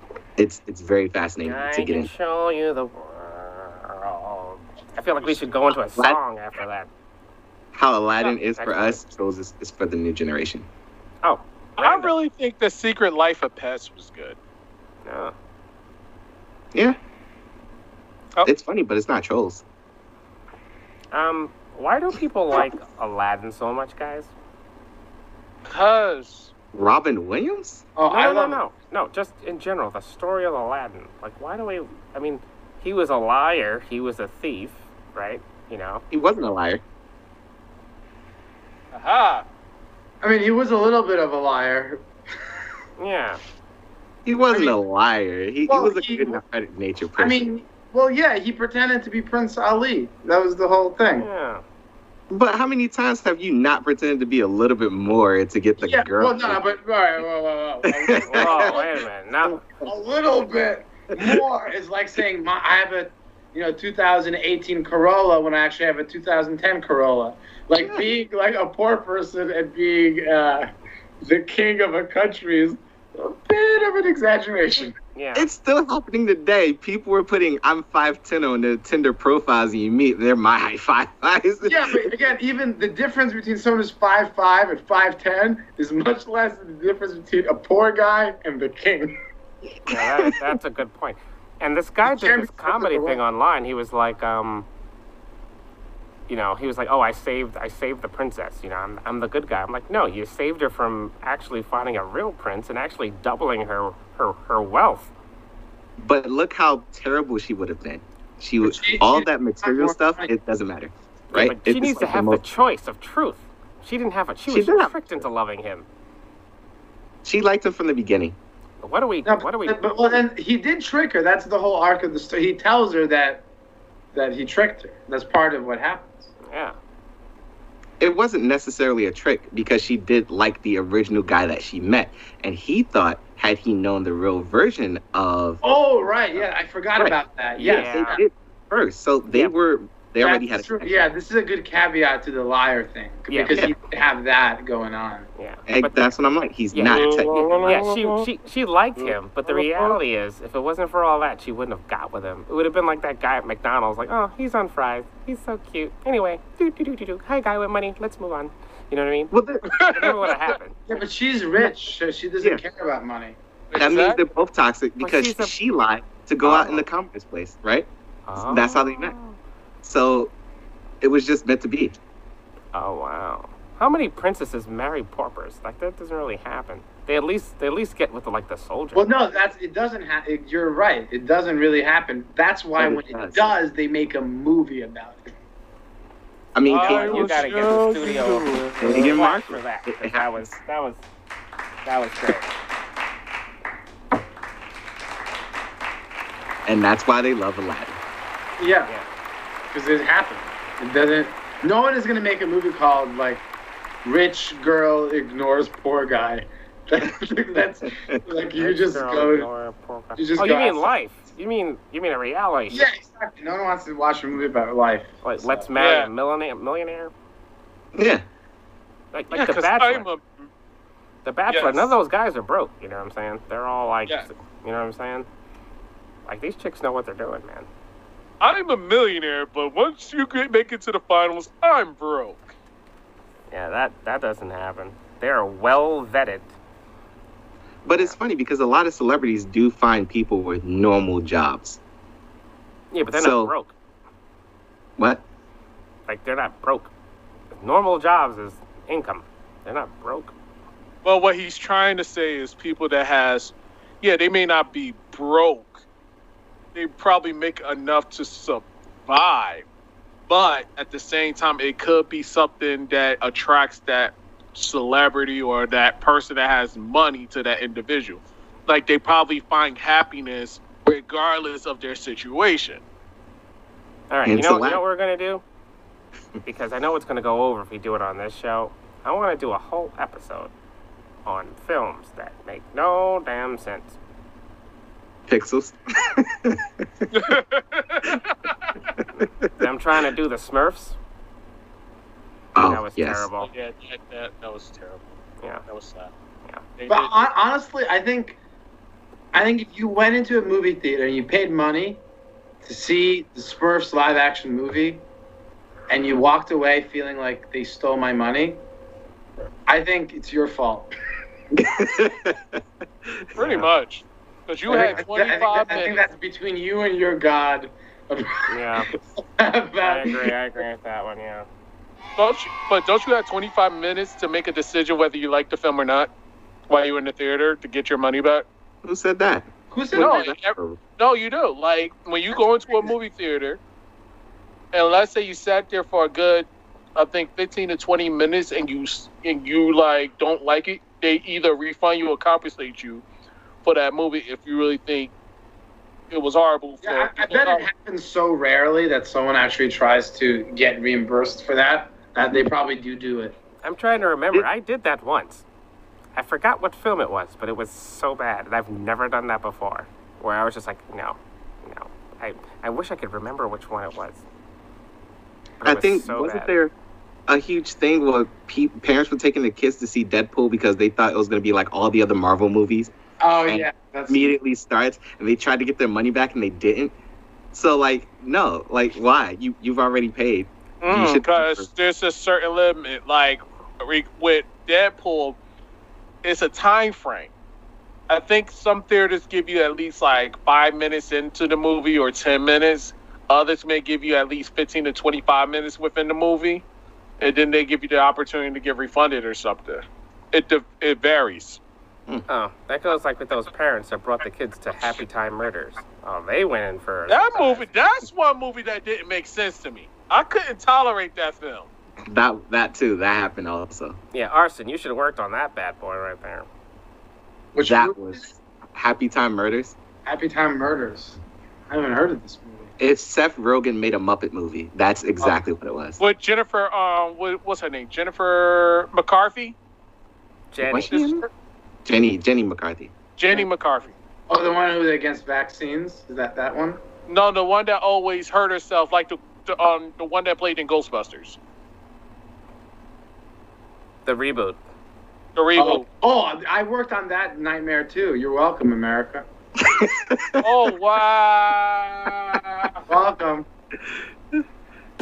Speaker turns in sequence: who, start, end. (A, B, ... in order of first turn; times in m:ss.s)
0:00.4-0:02.1 A
0:01.4-0:06.9 B
0:07.7-0:10.7 A
0:08.6-0:09.0 B
0:11.2-0:12.1 B
0:11.8-0:14.4 C
0:15.0-0:15.4 B
0:18.4-0:19.6 A
0:21.1-0:24.3 B
0:25.7-0:26.5 C
0:26.7-0:27.9 A
0:28.0-0:28.6 D
0:28.1-0:36.1 B
0:36.1-0:36.8 A
0:38.9-0:39.4 C
0:40.2-0:42.0 D
0:43.0-0:43.4 B
0:44.2-0:47.5 A
0:44.5-0:44.8 D
0:45.7-0:46.4 D
0:47.2-0:51.3 D
0:51.2-0:51.6 B
0:52.3-0:56.6 A
0:55.8-0:58.9 D
0:57.8-0:58.8 A
0:58.3-0:59.6 B
0:59.4-0:59.9 A
0:59.8-1:10.7 D
1:01.2-1:01.4 A
1:07.8-1:08.0 A
1:11.2-1:15.0 D
1:15.2-1:15.5 B
1:15.4-1:22.1 A
1:21.6-1:29.2 D
1:29.9-1:30.4 A
1:29.9-1:34.7 B
1:32.0-1:33.2 D
1:36.3-1:45.1 B
1:46.0-1:52.4 A
1:48.6-1:50.3 D
1:51.3-1:55.9 B
1:54.5-1:55.1 A
1:57.2-1:58.4 A
1:58.8-1:59.8 B
1:59.2-2:03.4 D
2:04.1-2:06.3 D
2:06.5-2:06.8 B
2:08.0-2:15.6 A
2:15.6-2:18.2 D
2:17.0-2:21.1 A
2:17.6-2:18.2 B
2:20.2-2:25.3 D
2:23.3-2:23.6 B
2:25.4-2:26.1 B
2:25.7-2:27.8 A
2:26.7-2:40.8 B
2:26.9-2:28.3 C
2:29.0-2:30.0 C
2:39.3-2:40.1 A
2:39.7-2:40.6 C
2:40.9-2:43.4 D
2:43.7-2:44.2 C
2:43.8-2:49.1 A
2:45.0-2:45.5 B
2:46.4-2:46.8 B
2:48.3-2:49.4 B
2:49.8-2:50.3 A
2:51.0-2:52.0 A
2:52.7-2:59.1 B
2:58.9-3:05.3 D
3:02.8-3:03.5 A
3:06.5-3:07.5 A
3:06.7-3:09.1 C
3:06.8-3:11.0 B
3:08.8-3:10.6 A
3:11.8-3:12.5 B
3:16.7-3:18.0 A
3:18.6-3:18.9 D
3:19.7-3:23.4 D
3:24.0-3:29.5 D
3:28.6-3:32.9 B
3:30.2-3:30.9 D
3:32.7-3:35.7 D
3:35.2-3:37.1 B
3:35.8-3:36.1 C
3:38.0-3:38.2 A
3:39.1-3:40.1 B
3:39.3-3:40.5 C
3:41.2-3:45.3 B
3:41.5-3:41.9 C
3:46.3-3:47.7 B
3:48.4-3:52.4 C
3:53.5-3:56.5 B
3:57.8-4:01.8 A
4:02.9-4:03.8 B
4:03.1-4:03.6 A
4:05.0-4:05.2 A
4:06.1-4:06.9 B
4:07.5-4:10.3 B
4:11.0-4:15.8 C
4:16.8-4:19.6 C
4:20.3-4:32.8 C
4:34.1-4:35.4 B
4:34.3-4:34.8 A
4:36.4-4:40.5 B
4:41.2-4:44.0 B
4:45.3-4:47.1 A
4:47.1-4:48.8 C
4:49.2-4:51.0 B
4:49.2-4:49.5 A
4:52.6-4:53.3 A
4:52.6-4:53.5 B
4:53.4-4:55.2 C
4:55.7-4:56.1 C
4:56.8-4:57.2 C
4:56.9-4:58.4 D
4:59.3-5:02.0 D
5:02.6-5:05.0 D
5:05.9-5:08.6 D
5:09.7-5:10.9 D
5:11.6-5:13.7 A
5:13.4-5:16.0 C
5:14.7-5:20.3 D
5:18.5-5:18.9 B
5:19.8-5:21.5 B
5:22.2-5:26.1 C
5:26.7-5:28.5 C
5:28.8-5:30.8 A
5:29.7-5:30.2 D
5:30.0-5:33.6 C
5:34.7-5:43.0 C
5:43.6-5:45.1 C
5:46.1-5:47.7 C
5:46.8-5:53.4 D
5:53.6-5:55.4 B
5:56.2-6:04.2 B
6:05.6-6:06.5 B
6:05.6-6:06.7 A
6:07.3-6:12.9 A
6:13.2-6:14.3 D
6:13.5-6:17.0 A
6:17.5-6:21.7 A
6:20.8-6:25.4 C
6:26.2-6:27.3 C
6:28.1-6:36.6 C
6:37.2-6:41.6 C
6:42.3-6:47.7 B
6:47.1-6:51.7 C
6:52.1-6:54.0 A
6:54.1-6:56.5 B
6:57.5-6:58.3 D
6:57.6-6:59.8 A
7:00.0-7:01.2 D
7:01.7-7:02.7 D
7:02.8-7:06.0 A
7:06.0-7:09.6 C
7:10.5-7:11.1 B
7:10.6-7:11.2 A
7:10.9-7:11.2 C
7:11.8-7:12.9 A
7:13.2-7:13.9 C
7:14.3-7:16.8 D
7:17.1-7:21.4 C
7:24.0-7:24.6 B
7:25.4-7:25.8 C
7:25.6-7:29.3 D
7:29.6-7:30.5 A
7:30.4-7:32.8 C
7:32.9-7:33.5 D
7:33.9-7:34.4 A